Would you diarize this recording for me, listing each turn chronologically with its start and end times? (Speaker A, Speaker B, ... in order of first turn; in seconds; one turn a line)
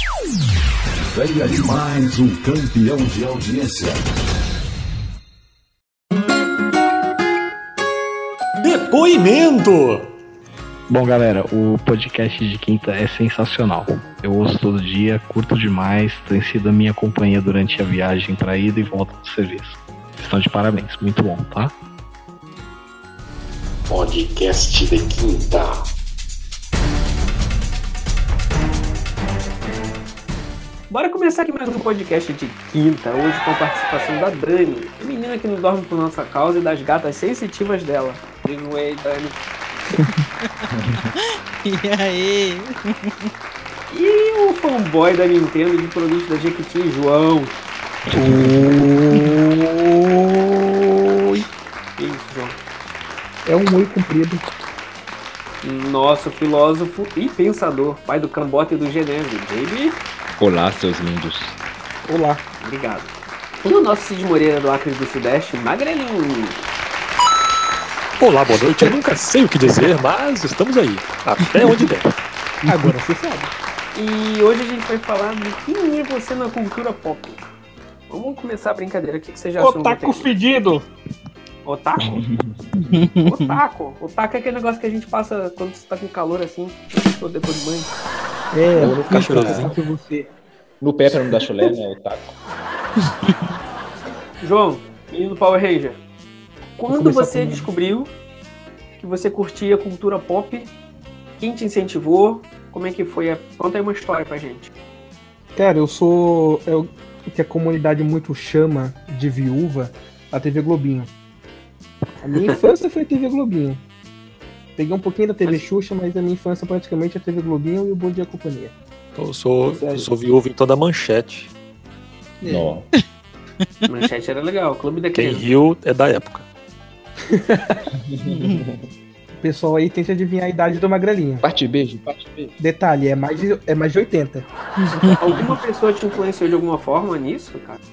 Speaker A: 1.1-4.0
Speaker B: 8.6-10.1
Speaker C: 10.9-21.7
Speaker B: 23.9-25.8
Speaker D: 30.9-39.4
Speaker E: 40.7-41.0
Speaker F: 41.6-43.3
Speaker D: 43.9-47.6
Speaker G: 48.1-51.5
Speaker D: 52.0-52.6
Speaker G: 53.4-54.4
Speaker D: 55.6-60.0
Speaker E: 60.4-61.6
Speaker G: 62.0-62.4
Speaker D: 62.6-66.6
Speaker B: 68.2-72.1
Speaker G: 72.6-73.5
Speaker D: 73.9-77.5
Speaker D: 78.1-80.3
Speaker G: 79.6-80.8
Speaker D: 81.6-82.2
Speaker E: 82.0-82.7
Speaker F: 82.9-83.6
Speaker D: 83.2-87.9
Speaker G: 88.5-90.3
Speaker E: 88.7-89.7
Speaker B: 89.0-89.8
Speaker E: 90.8-92.4
Speaker D: 94.4-96.0
Speaker D: 96.8-98.1
Speaker G: 96.9-97.7
Speaker D: 99.0-100.7
Speaker D: 101.4-104.7
Speaker G: 105.5-111.1
Speaker G: 112.2-113.8
Speaker G: 114.8-118.7
Speaker B: 119.2-121.5
Speaker G: 119.6-120.1
Speaker F: 122.4-123.0
Speaker E: 122.4-122.9
Speaker D: 123.9-125.5
Speaker B: 125.1-126.5
Speaker G: 127.3-127.9
Speaker E: 128.0-128.8
Speaker F: 128.2-128.6
Speaker G: 129.4-131.4
Speaker E: 131.4-132.6
Speaker G: 132.6-134.5
Speaker F: 134.8-135.2
Speaker D: 135.0-137.8